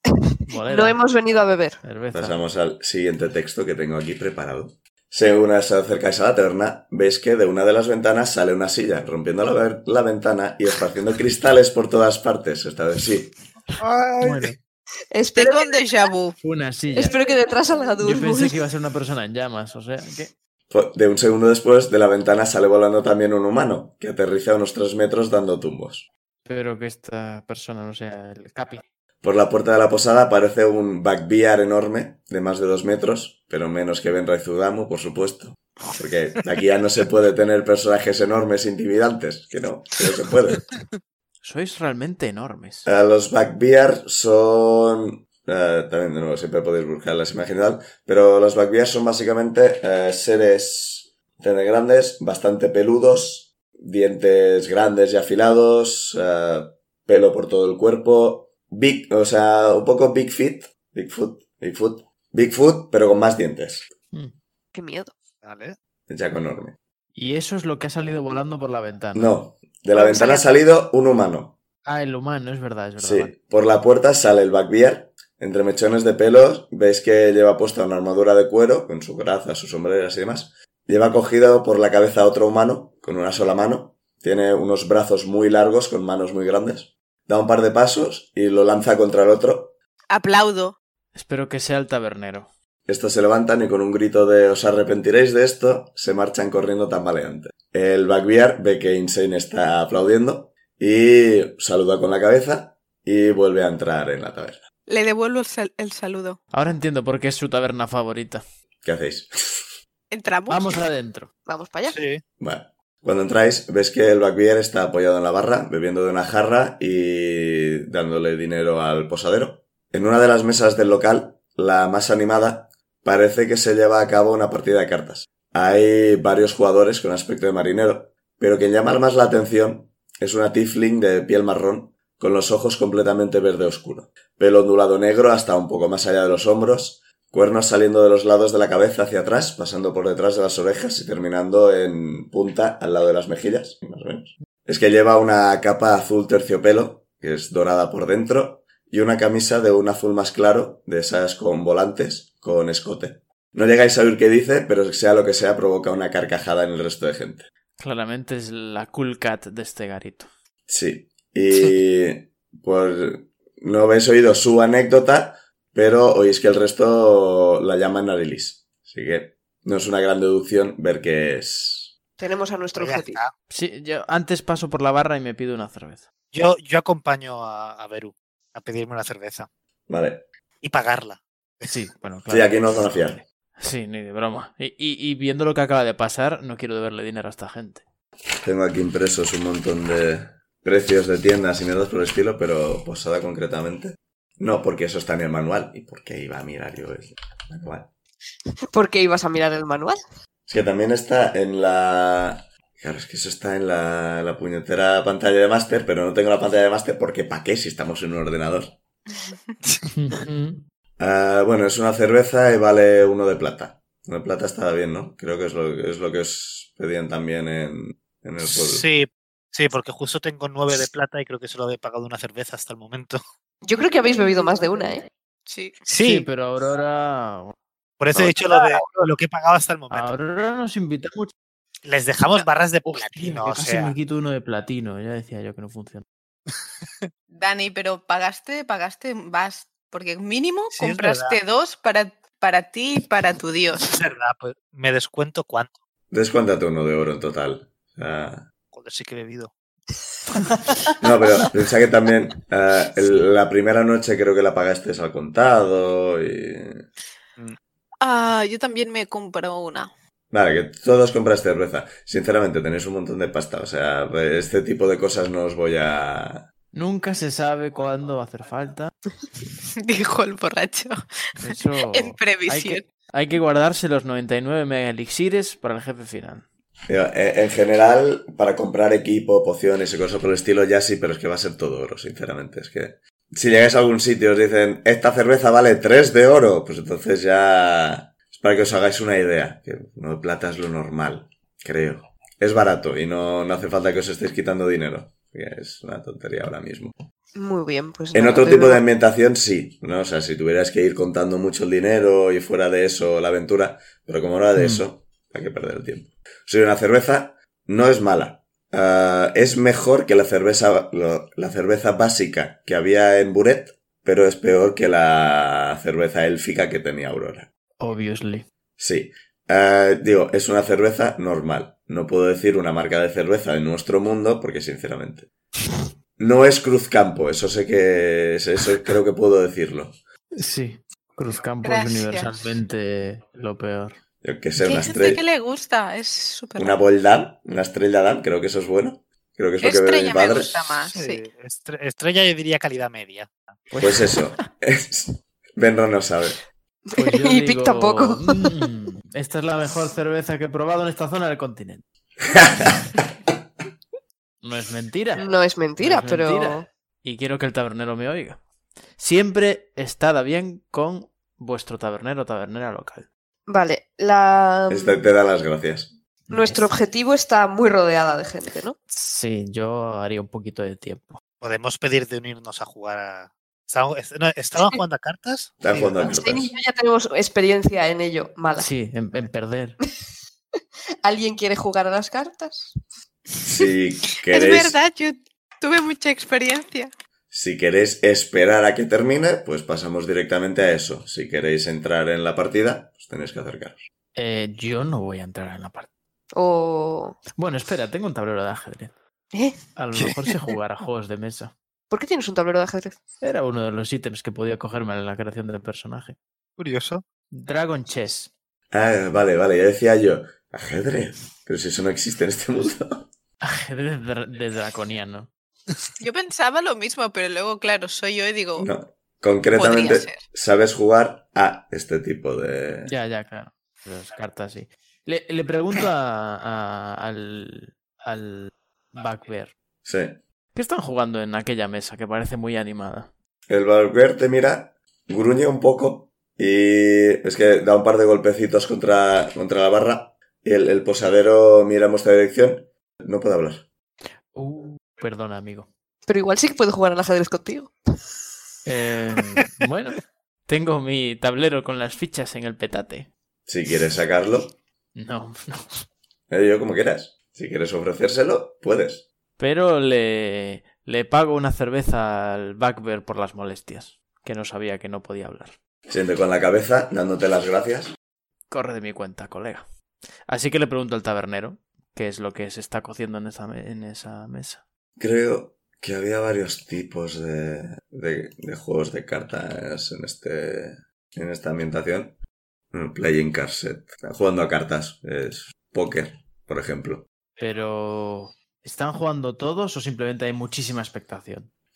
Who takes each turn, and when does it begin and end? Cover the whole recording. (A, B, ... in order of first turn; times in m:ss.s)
0:00.5-0:01.0 A
0:00.6-0:01.8 B
0:01.8-0:02.4 A
0:02.1-0:13.3 C
0:13.8-0:14.5 D
0:14.2-0:14.6 A
0:15.1-0:16.0 B
0:15.3-0:16.4 E
0:16.4-0:17.2 A
0:16.9-0:18.6 B
0:18.0-0:20.3 A
0:20.7-0:26.1 C
0:26.4-0:28.8 A
0:29.2-0:40.7 C
0:41.4-0:42.9 A
0:42.8-1:03.9 C
1:04.7-1:05.1 B
1:05.4-1:05.8 D
1:06.1-1:06.8 C
1:07.1-1:09.3 A
1:09.1-1:11.6 C
1:09.9-1:10.6 B
1:11.8-1:13.3 A
1:13.0-1:29.7 C
1:30.1-1:30.8 E
1:31.1-1:32.5 A
1:32.8-1:44.6 C
1:44.9-1:46.4 E
1:46.5-1:48.4 A
1:48.8-1:49.7 C
1:50.1-1:50.8 E
1:50.5-1:51.3 A
1:51.4-1:52.0 B
1:51.9-1:52.2 D
1:52.4-2:37.5 C
2:37.8-2:40.3 A
2:40.7-2:51.9 C
2:52.2-2:53.2 B
2:52.8-2:53.3 D
2:53.5-2:56.1 A
2:56.3-2:59.5 D
2:59.9-3:00.2 C
3:00.6-3:01.7 D
3:01.6-3:07.8 A
3:02.3-3:03.2 C
3:08.4-3:17.9 C
3:18.7-3:20.0 B
3:20.5-3:28.8 C
3:29.9-3:30.6 A
3:31.0-3:38.8 C
3:38.4-3:43.2 D
3:43.6-3:45.1 B
3:45.5-3:45.8 E
3:45.8-3:46.2 D
3:46.0-3:47.5 A
3:48.0-3:50.1 D
3:48.5-3:48.8 B
3:49.9-3:51.3 A
3:51.8-3:53.9 D
3:52.8-3:56.0 A
3:57.3-4:03.9 E
4:00.7-4:01.4 D
4:03.8-4:05.8 D
4:06.1-4:08.5 C
4:08.7-4:09.5 D
4:11.0-4:16.8 C
4:18.0-4:19.9 E
4:20.3-4:26.5 C
4:26.7-4:28.9 A
4:29.7-4:31.0 E
4:31.4-4:36.4 A
4:31.9-4:32.8 E
4:36.9-4:57.0 C
4:57.3-4:58.8 B
4:58.1-5:17.5 C
5:04.6-5:04.8 A
5:17.8-5:18.4 A
5:18.8-5:25.3 C
5:26.2-5:30.0 C
5:30.4-5:34.0 A
5:31.6-5:32.3 E
5:34.2-5:35.2 C
5:34.6-5:36.8 E
5:36.6-5:40.7 C
5:39.6-5:41.2 E
5:40.9-5:43.6 D
5:43.7-5:44.1 A
5:43.8-5:46.4 C
5:46.9-5:48.5 B
5:47.0-5:51.8 A
5:52.3-5:52.8 C
5:54.4-5:58.4 A
5:55.2-5:56.6 B
5:59.0-6:03.1 A
6:03.5-6:05.0 B
6:04.7-6:05.9 C
6:06.3-6:06.7 A
6:06.3-6:08.8 B
6:08.9-6:11.2 A
6:11.4-6:16.0 D
6:15.6-6:16.5 C
6:16.0-6:18.7 B
6:18.6-6:19.8 A
6:21.0-6:22.8 B
6:23.4-6:24.8 C
6:24.3-6:26.9 E
6:27.3-6:33.9 C
6:34.2-6:35.9 A
6:36.3-6:37.2 B
6:37.4-6:38.9 A
6:39.3-6:39.6 B
6:39.7-6:41.5 A
6:39.9-6:40.4 D
6:41.9-6:43.0 B
6:43.2-6:46.2 A
6:46.6-6:47.0 D
6:47.3-6:48.3 A
6:48.7-6:53.1 C
6:53.4-6:55.3 A
6:56.0-6:58.7 E
6:58.6-7:02.9 C
6:59.5-7:00.2 E
7:02.9-7:09.5 A
7:09.8-7:10.2 C
7:10.5-7:13.1 A
7:13.5-7:23.7 C
7:24.3-7:25.7 A
7:26.0-7:27.7 B
7:28.6-7:33.1 A
7:33.4-7:34.6 C
7:34.9-7:35.9 A
7:36.3-7:39.0 C
7:39.4-7:45.6 A
7:45.9-7:47.9 C
7:48.5-7:49.7 A
7:50.3-7:54.6 A
7:55.0-8:02.2 C
8:02.7-8:07.1 C
8:07.4-8:11.5 A